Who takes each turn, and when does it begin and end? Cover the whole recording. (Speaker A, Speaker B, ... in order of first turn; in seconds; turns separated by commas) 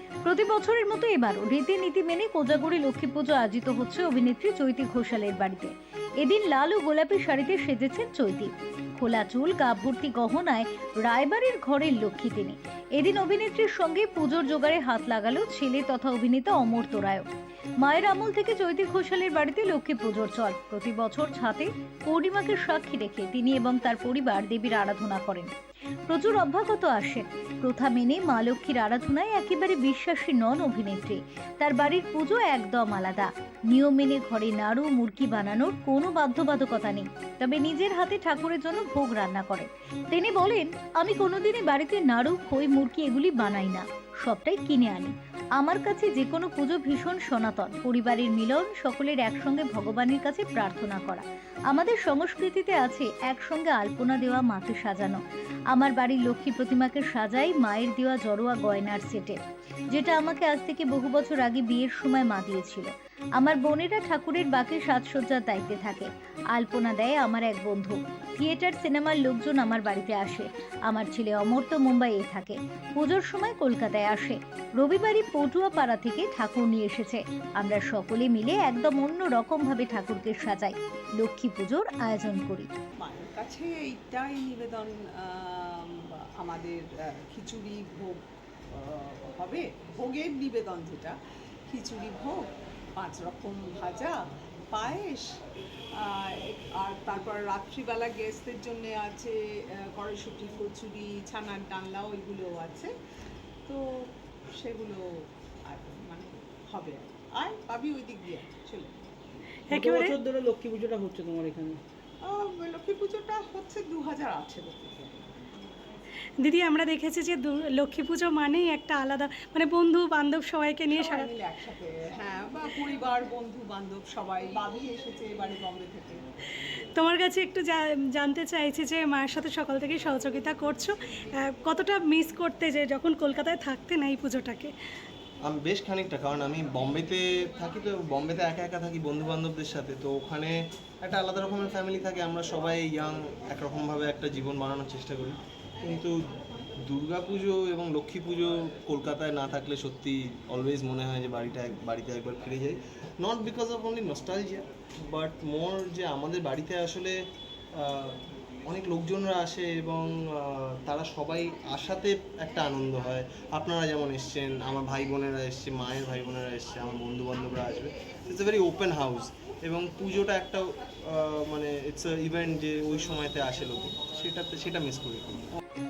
Speaker A: 0.2-17.3, Speaker A: 17.8-25.5, Speaker A: 26.1-55.2, Speaker A: 55.7-59.4, Speaker A: 59.9-82.7, Speaker B: 83.0-88.2, Speaker B: 88.7-91.2, Speaker B: 91.7-94.2, Speaker B: 94.7-95.3, Speaker B: 95.9-102.9, Speaker B: 103.7-105.0, Speaker B: 105.7-109.0, Speaker C: 109.7-110.1, Speaker D: 109.7-111.8, Speaker B: 112.2-115.3, Speaker C: 116.4-121.3, Speaker B: 120.9-126.2, Speaker C: 127.0-134.7, Speaker E: 135.5-146.1, Speaker E: 146.8-157.1, Speaker E: 157.7-175.5